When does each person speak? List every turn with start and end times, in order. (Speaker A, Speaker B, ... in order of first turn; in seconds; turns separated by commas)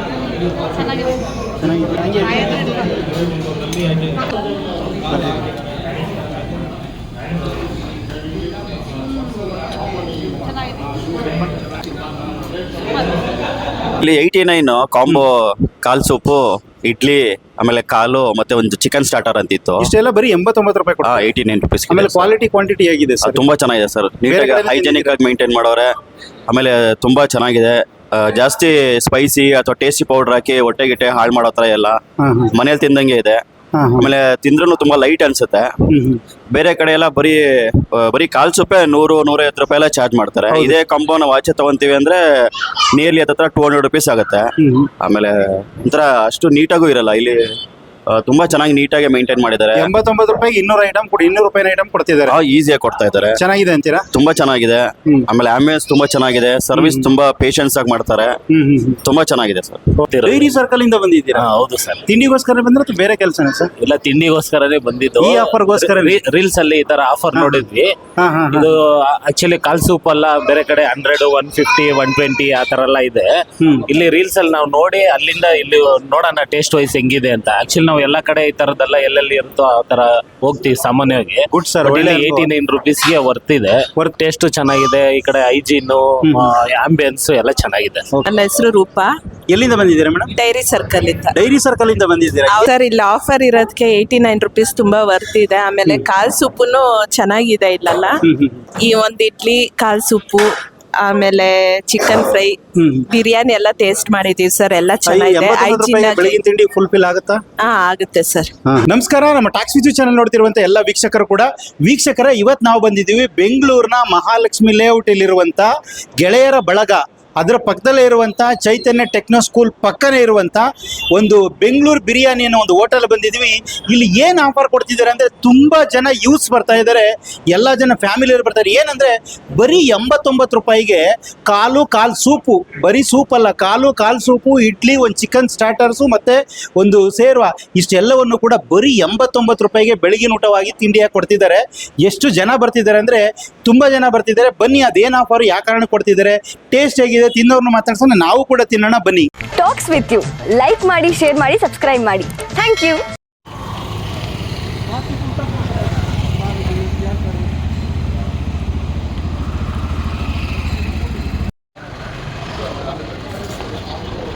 Speaker A: 1.6-3.0, Speaker A: 5.1-5.5, Speaker B: 14.0-19.9, Speaker A: 19.8-21.3, Speaker B: 21.0-22.3, Speaker A: 21.9-23.4, Speaker B: 23.2-25.9, Speaker A: 24.3-25.2, Speaker B: 26.5-32.0, Speaker A: 32.2-32.5, Speaker B: 32.5-33.4, Speaker A: 33.7-34.1, Speaker B: 34.0-35.7, Speaker A: 35.9-36.2, Speaker B: 36.5-44.4, Speaker A: 44.6-44.9, Speaker B: 45.0-47.4, Speaker B: 48.1-49.9, Speaker A: 49.8-52.4, Speaker B: 52.3-53.4, Speaker A: 53.4-54.1, Speaker B: 54.1-58.3, Speaker A: 56.7-57.1, Speaker A: 58.5-59.0, Speaker B: 59.0-59.8, Speaker A: 60.0-61.4, Speaker C: 60.1-60.5, Speaker C: 61.4-62.0, Speaker A: 62.1-63.7, Speaker C: 63.8-67.9, Speaker A: 65.2-66.2, Speaker A: 67.3-67.6, Speaker A: 68.2-68.7, Speaker C: 68.5-73.3, Speaker A: 73.6-73.9, Speaker C: 73.9-88.1, Speaker A: 81.5-82.5, Speaker A: 86.2-86.5, Speaker D: 88.2-89.1, Speaker A: 89.5-90.3, Speaker D: 90.4-91.3, Speaker A: 91.3-92.7, Speaker D: 92.5-98.2, Speaker A: 98.2-98.6, Speaker D: 98.8-100.5, Speaker D: 101.0-102.6, Speaker A: 102.7-103.1, Speaker D: 103.1-106.3, Speaker A: 105.0-107.4, Speaker D: 107.6-108.5, Speaker A: 108.7-149.3, Speaker E: 149.6-153.0